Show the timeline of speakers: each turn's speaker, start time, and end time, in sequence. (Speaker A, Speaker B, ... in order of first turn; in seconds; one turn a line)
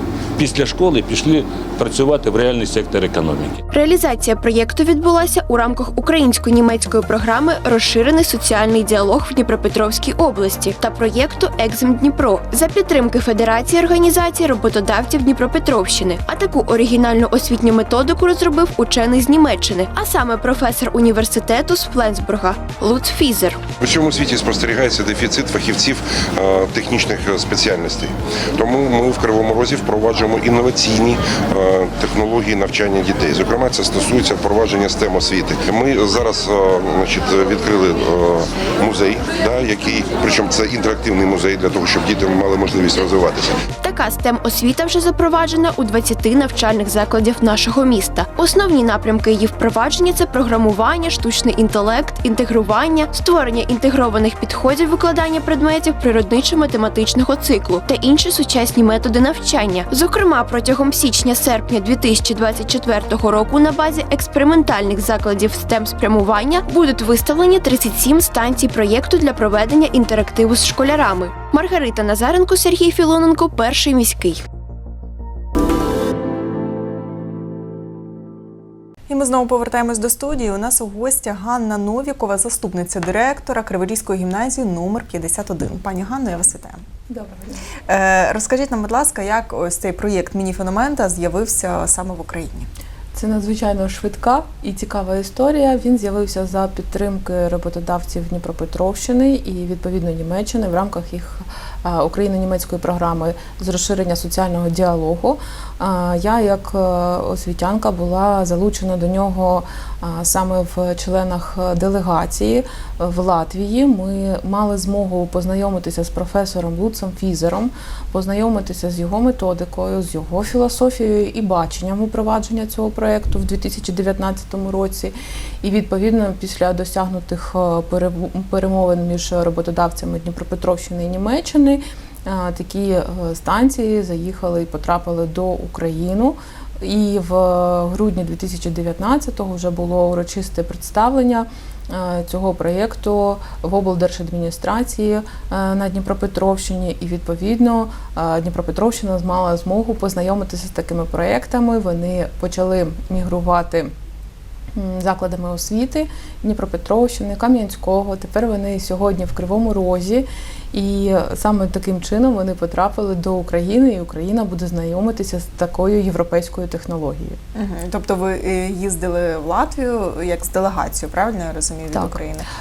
Speaker A: 0.3-3.6
Speaker B: 3.7-23.6
Speaker C: 23.8-43.6
Speaker B: 43.8-74.4
Speaker D: 79.1-86.8
Speaker E: 87.1-87.6
Speaker D: 87.9-92.7
Speaker E: 93.1-153.9
Speaker E: 154.7-167.4
Speaker D: 167.5-172.5